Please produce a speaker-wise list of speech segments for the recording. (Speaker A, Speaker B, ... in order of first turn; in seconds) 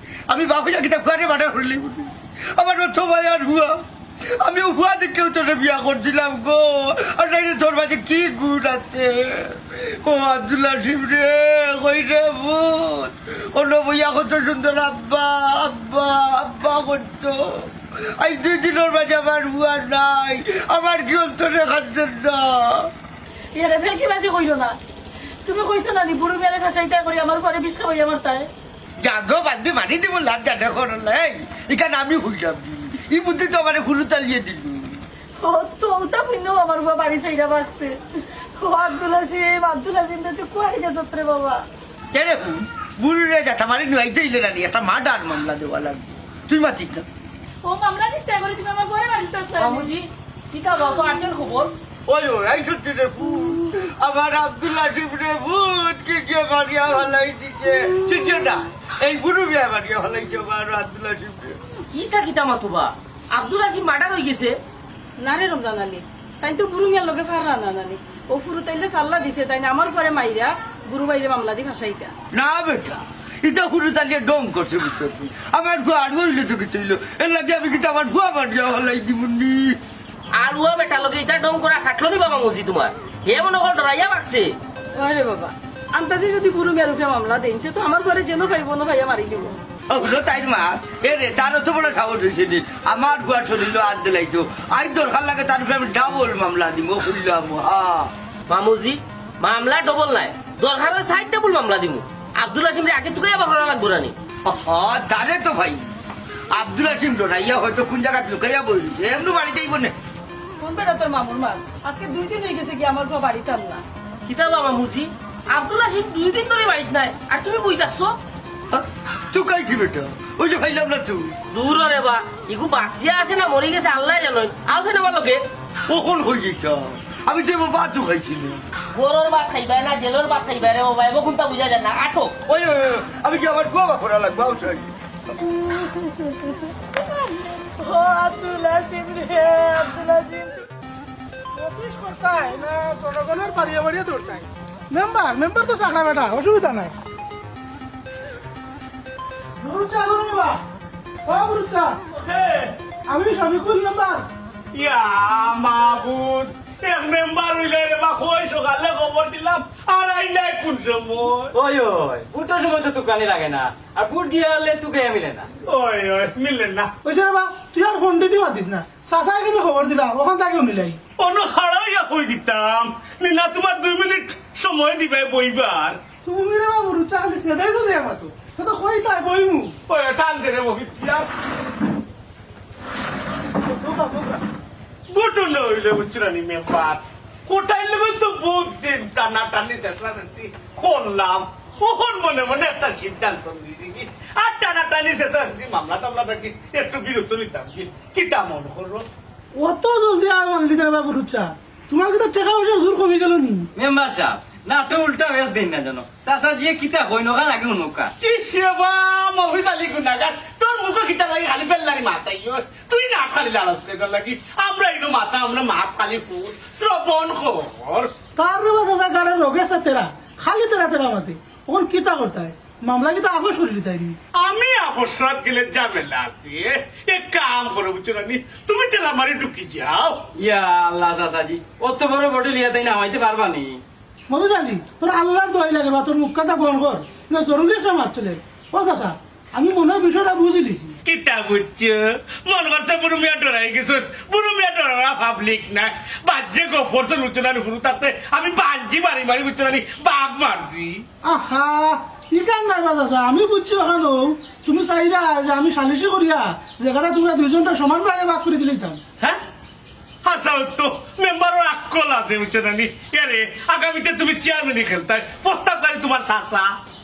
Speaker A: 0.3-3.7, 4.4-22.9, 29.0-35.0, 42.1-47.0, 52.1-61.6, 72.3-79.8, 89.9-98.1, 104.4-105.8, 106.5-109.9, 118.7-121.3, 125.9-128.6, 132.5-134.9
Speaker B: 23.5-24.8, 25.4-28.5, 35.4-38.0, 38.6-41.6, 47.6-49.9, 65.2-72.1, 84.9-89.5, 110.6-113.8, 135.8-140.5
Speaker C: 49.6-51.7, 61.9-64.6, 80.3-84.5, 98.5-104.1, 114.3-118.2, 121.5-125.4, 128.9-132.3
Speaker D: 141.5-146.9, 149.6-150.6, 151.2-152.0, 153.1-154.3, 167.0-171.0, 176.2-179.8, 183.6-184.4, 199.5-203.7, 218.4-224.2, 234.3-241.0, 251.2-259.0
Speaker E: 152.1-152.8, 154.7-161.5, 165.6-166.9, 171.2-176.0, 179.9-181.3, 185.1-199.1, 208.2-218.1, 224.3-230.2, 241.0-251.0, 260.2-266.7
Speaker F: 161.5-165.5, 203.8-208.1, 230.3-233.8